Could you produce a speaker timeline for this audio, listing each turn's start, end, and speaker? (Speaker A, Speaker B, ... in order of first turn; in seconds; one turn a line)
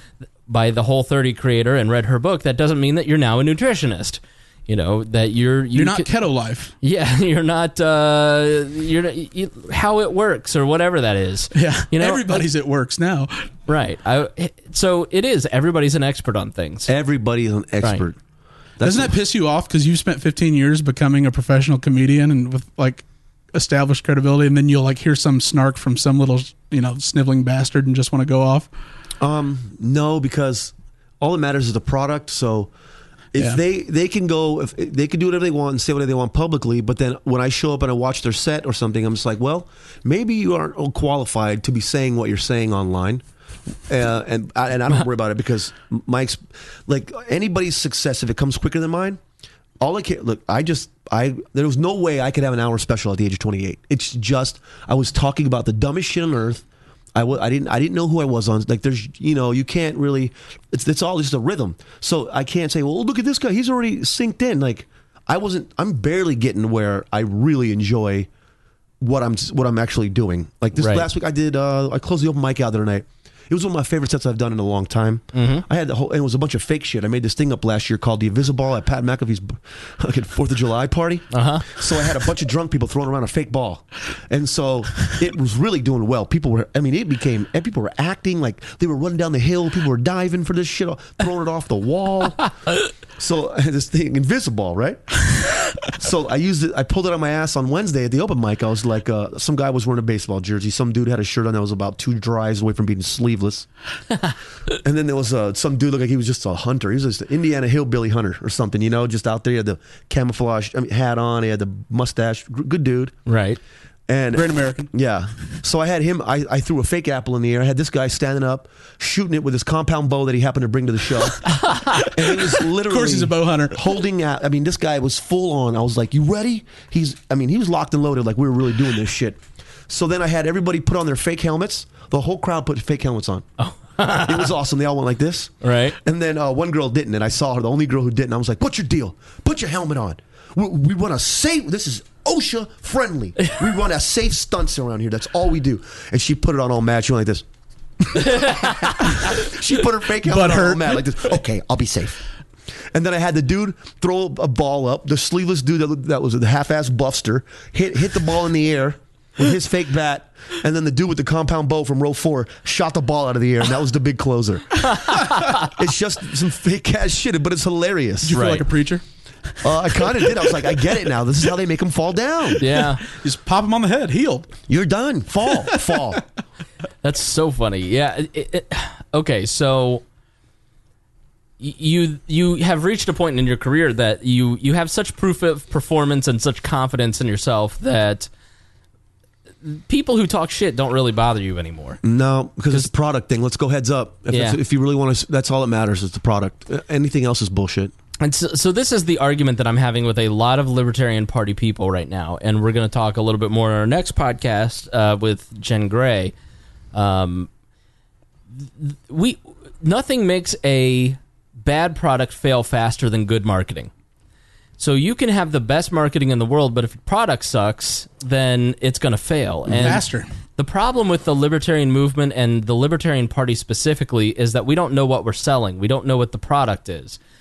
Speaker A: 0.5-6.1
Speaker B: 5.8-6.7
Speaker A: 6.8-12.5
Speaker B: 11.5-13.5
Speaker A: 13.7-16.9
Speaker C: 16.9-18.2
Speaker C: 18.8-19.2
Speaker B: 18.8-28.7
Speaker C: 29.2-32.7
Speaker C: 33.3-43.2
Speaker C: 43.9-49.2
Speaker C: 49.8-56.6
Speaker C: 57.1-68.3
Speaker C: 69.0-92.5
Speaker A: 70.8-71.1
Speaker A: 75.3-75.7
Speaker A: 81.3-81.7
Speaker C: 93.2-103.7
Speaker C: 104.7-113.2
Speaker A: 113.3-113.6
Speaker C: 114.1-133.5
Speaker B: 114.3-114.9
Speaker B: 121.7-123.8
Speaker A: 133.6-134.5
Speaker C: 134.1-147.5
Speaker A: 135.6-136.0
Speaker C: 148.0-152.2
Speaker A: 148.3-148.7
Speaker B: 150.2-151.3
Speaker C: 152.9-168.4
Speaker B: 168.2-169.0
Speaker A: 168.3-168.6
Speaker B: 169.6-170.9
Speaker C: 169.6-172.6
Speaker A: 172.6-173.0
Speaker B: 172.8-174.6
Speaker C: 174.7-176.2
Speaker A: 177.0-180.0
Speaker A: 181.6-188.3
Speaker A: 189.6-192.0
Speaker C: 192.0-197.9
Speaker A: 194.3-194.6
Speaker A: 198.2-206.3
Speaker A: 206.9-207.5
Speaker A: 208.6-213.9
Speaker A: 214.8-220.0
Speaker B: 219.8-220.3
Speaker A: 220.6-227.2